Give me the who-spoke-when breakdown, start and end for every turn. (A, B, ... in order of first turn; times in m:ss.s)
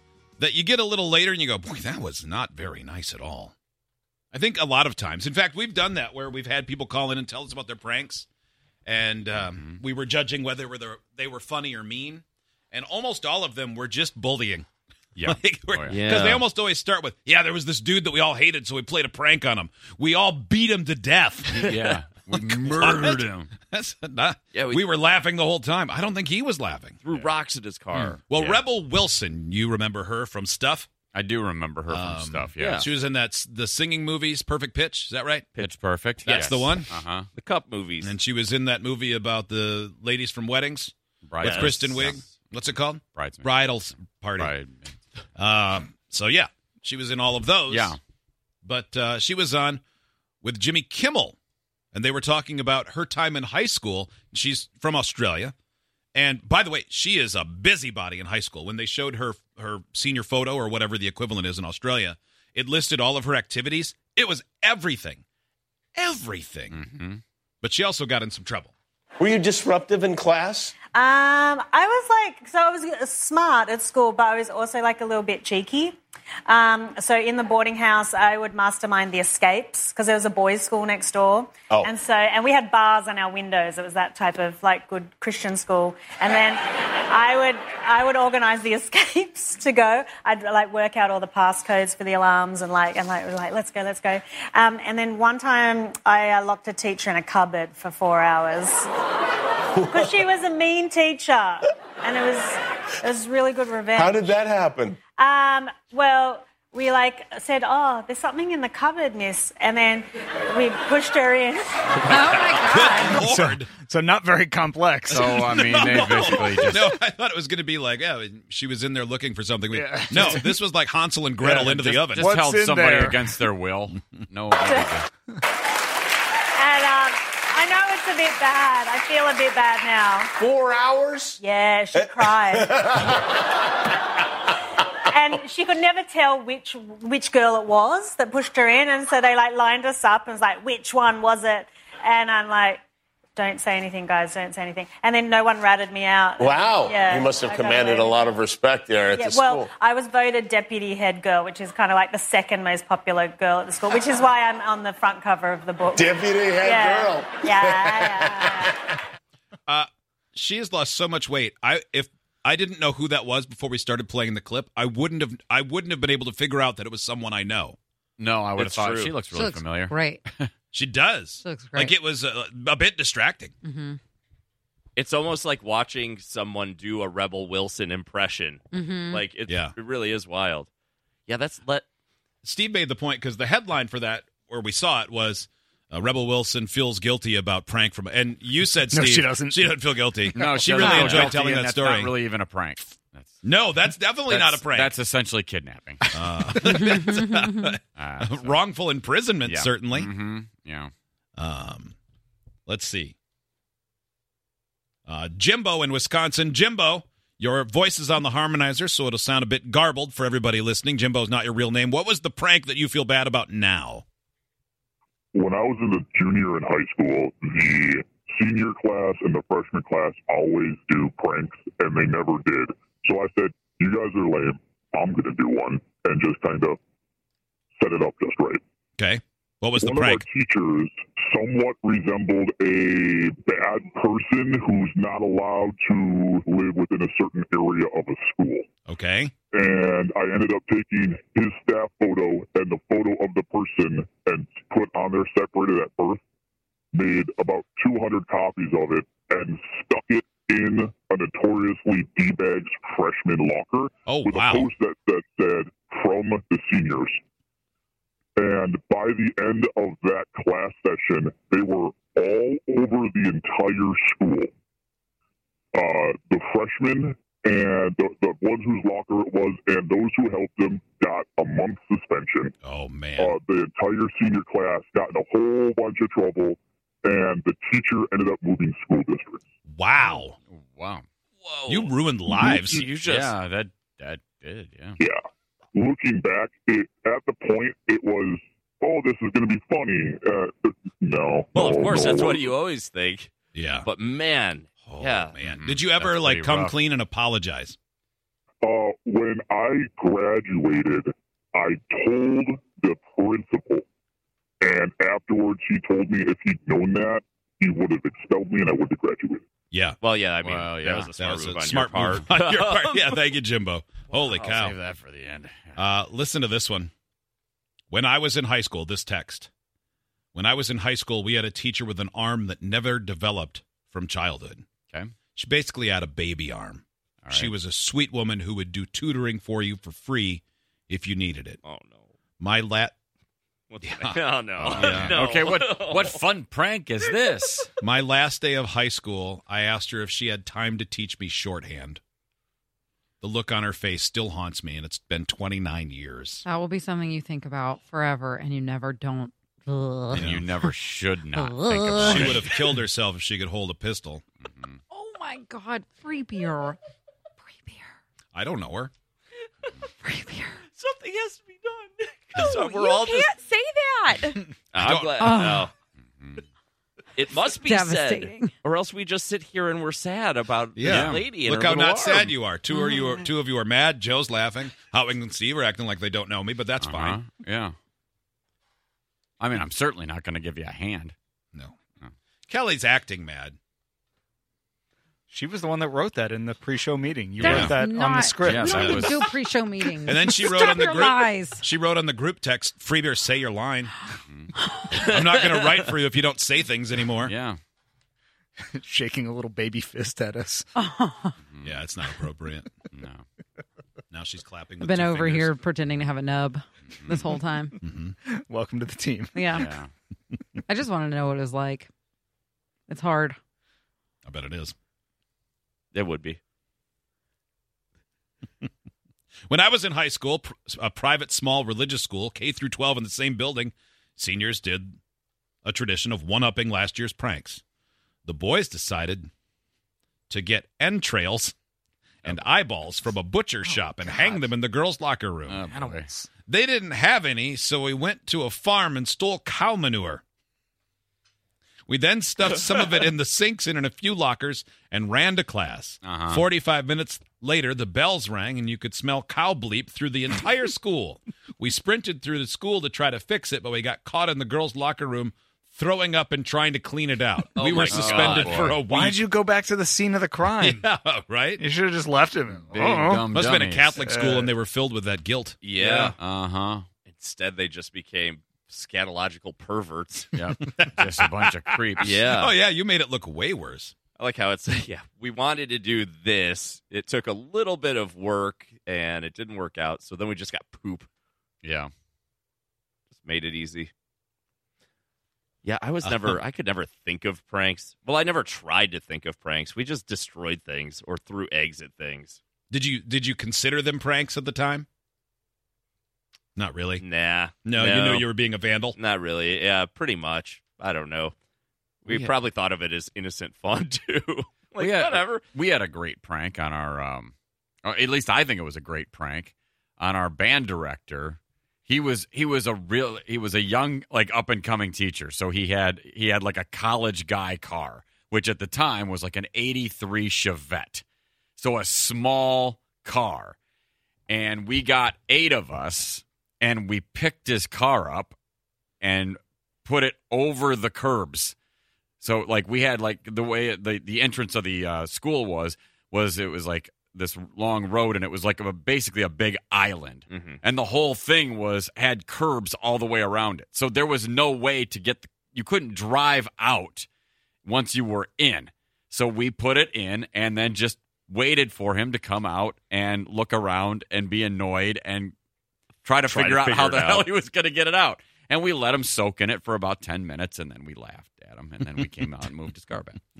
0:00.4-0:03.6 A
0:04.3-0:08.3 A
0:08.9-0:14.7 A
0:09.5-0:09.8 B
0:15.2-0:16.0 B
0:15.2-0:21.8 A
0:15.9-0:16.4 C
0:21.5-0:23.5 B
0:22.3-0:27.0 A
0:24.5-0:24.9 C
0:27.0-0:28.2 C
0:28.0-0:28.6 B
0:28.3-0:30.9 A
0:31.1-0:32.8 B
0:31.9-0:35.5 A
0:32.6-0:32.9 C
0:35.6-0:37.3 B
0:36.2-0:36.9 A
0:36.3-0:36.6 C
0:37.3-0:38.2 C
0:38.0-0:44.5 A
0:41.2-0:42.3 B
0:41.4-0:41.9 C
0:43.2-0:43.5 B
0:44.4-0:45.0 B
0:45.4-0:48.0 A
0:47.7-0:48.0 B
0:48.6-0:49.8 A
0:50.4-0:51.4 A
0:51.9-0:55.5 A
0:56.2-1:05.2 A
1:06.0-1:06.8 A
1:06.7-1:07.2 B
1:07.6-1:08.7 A
1:09.2-1:10.7 D
1:10.9-1:38.9 E
1:39.8-1:44.4 E
1:43.9-1:45.0 D
1:45.2-1:52.1 E
1:52.1-1:53.2 F
1:52.6-1:53.7 A
1:53.0-1:56.9 G
1:55.1-1:56.8 B
1:55.3-2:02.3 A
1:59.7-2:00.5 G
2:01.4-2:03.3 G
2:02.2-2:05.1 B
2:06.6-2:10.3 E
2:10.4-2:11.4 D
2:11.4-2:13.2 E
2:12.0-2:13.4 D
2:15.1-2:22.8 E
2:23.4-2:28.3 E
2:26.4-2:29.7 D
2:29.1-2:38.8 E
2:35.9-2:38.7 D
2:39.7-2:47.8 A
2:48.2-2:50.5 B
2:48.6-2:49.2 C
2:49.3-2:50.2 F
2:50.7-2:53.5 A
2:51.4-2:51.9 F
2:53.6-2:54.0 F
2:55.0-3:00.7 C
2:58.7-2:59.2 F
2:59.5-2:59.7 A
3:01.3-3:01.9 C
3:02.4-3:12.2 A
3:08.9-3:11.9 G
3:10.3-3:13.4 B
3:13.4-3:15.0 A
3:14.3-3:16.0 B
3:16.1-3:20.1 A
3:18.0-3:18.6 B
3:19.4-3:20.9 B
3:21.4-3:22.0 A
3:22.7-3:23.2 A
3:25.1-3:34.0 A
3:35.3-3:46.8 H
3:47.8-3:48.6 H
3:49.0-3:50.2 A
3:49.8-3:58.7 H
3:58.9-3:59.3 A
3:59.5-4:06.2 H
4:06.9-4:17.2 H
4:14.1-4:14.7 A
4:18.4-4:24.5 H
4:25.7-4:32.5 H
4:32.6-4:33.3 A
4:33.2-4:39.4 H
4:39.7-4:40.4 A
4:40.5-4:41.0 B
4:41.4-4:41.9 C
4:41.7-4:42.9 A
4:42.6-4:43.3 C
4:43.0-4:45.0 B
4:45.0-4:45.2 H
4:45.7-4:52.5 H
4:51.5-4:53.3 C
4:53.5-4:53.9 A
4:53.8-4:55.4 C
4:54.9-4:57.8 A
4:55.4-4:56.7 B
4:58.6-5:03.9 H
5:04.6-5:09.4 H
5:09.7-5:10.0 A
5:10.0-5:13.1 C
5:10.4-5:11.1 B
5:11.1-5:14.8 A
5:14.3-5:15.8 B
5:15.8-5:16.9 A
5:17.9-5:19.5 A
5:20.4-5:24.7 A
5:25.4-5:31.6 A
5:27.2-5:27.5 B
5:31.6-5:32.1 C
5:32.4-5:33.0 A
5:33.7-5:36.2 C
5:33.8-5:35.2 A
5:34.6-5:37.7 B
5:37.8-5:42.0 A
5:43.2-5:46.4 A
5:46.5-5:50.3 F
5:50.1-5:50.5 A
5:50.2-5:52.5 B
5:51.3-5:52.4 F
5:52.0-5:54.2 A
5:54.4-5:54.8 B
5:54.9-5:56.8 F
5:57.4-5:57.9 F
5:58.3-5:58.9 A
6:00.0-6:00.6 F
6:00.7-6:03.3 C
6:02.4-6:04.4 F
6:04.7-6:05.7 C
6:04.8-6:05.3 A
6:05.2-6:05.7 F
6:07.2-6:12.4 C
6:07.4-6:08.6 F
6:10.8-6:17.2 A
6:10.8-6:11.2 B
6:12.7-6:13.2 F
6:16.8-6:17.8 B
6:19.4-6:21.1 B
6:22.5-6:23.6 A
6:25.3-6:29.3 G
6:27.4-6:31.6 F
6:27.4-6:27.8 A
6:28.4-6:29.2 B
6:28.6-6:29.1 A
6:30.1-6:34.0 A
6:34.3-6:34.5 B
6:34.9-6:35.9 C
6:35.0-6:37.3 A
6:37.2-6:37.6 B
6:38.6-6:40.7 G
6:40.8-6:41.3 F
6:41.5-6:41.7 B
6:41.6-6:42.7 A
6:42.9-6:43.2 B
6:44.1-6:45.6 A
6:44.8-6:47.8 F
6:47.8-6:48.2 A
6:48.2-6:49.5 G
6:49.4-6:49.8 F
6:49.5-6:49.9 B
6:50.7-6:51.9 F
6:52.9-6:53.4 F
6:54.2-6:54.7 A
6:55.9-6:56.4 C
6:59.5-7:05.0 A
7:05.6-7:07.6 A
7:08.2-7:09.3 A
7:10.3-7:11.5 A
7:12.2-7:15.6 A
7:13.8-7:14.4 G
7:15.5-7:16.1 B
7:15.6-7:16.3 G
7:16.5-7:20.2 A
7:21.9-7:39.2 A
7:26.0-7:26.4 B
7:37.6-7:38.6 C
7:37.9-7:38.8 B
7:38.6-7:40.9 G
7:40.6-7:41.6 A
7:41.6-7:43.4 G
7:42.7-7:43.9 B
7:43.3-7:46.1 A
7:44.0-7:44.5 G
7:45.6-7:46.2 C
7:46.2-7:46.9 B
7:47.1-7:50.4 C
7:50.4-7:52.3 B
7:50.6-7:54.0 A
7:52.0-7:52.6 C
7:54.2-8:01.1 C
8:01.6-8:01.9 B
8:03.1-8:03.9 C
8:05.6-8:12.4 C
8:06.0-8:06.4 A
8:12.7-8:14.9 A
8:16.6-8:17.0 A
8:17.0-8:18.3 C
8:17.6-8:19.0 A
8:19.0-8:21.4 C
8:22.0-8:25.4 C
8:24.8-8:27.3 B
8:27.8-8:41.0 B
8:41.6-8:43.6 B
8:44.3-8:48.4 B
8:49.0-8:51.6 B
8:52.2-9:07.1 B
9:00.3-9:00.6 C
9:07.6-9:15.3 B
9:16.0-9:23.2 B
9:16.2-9:17.3 C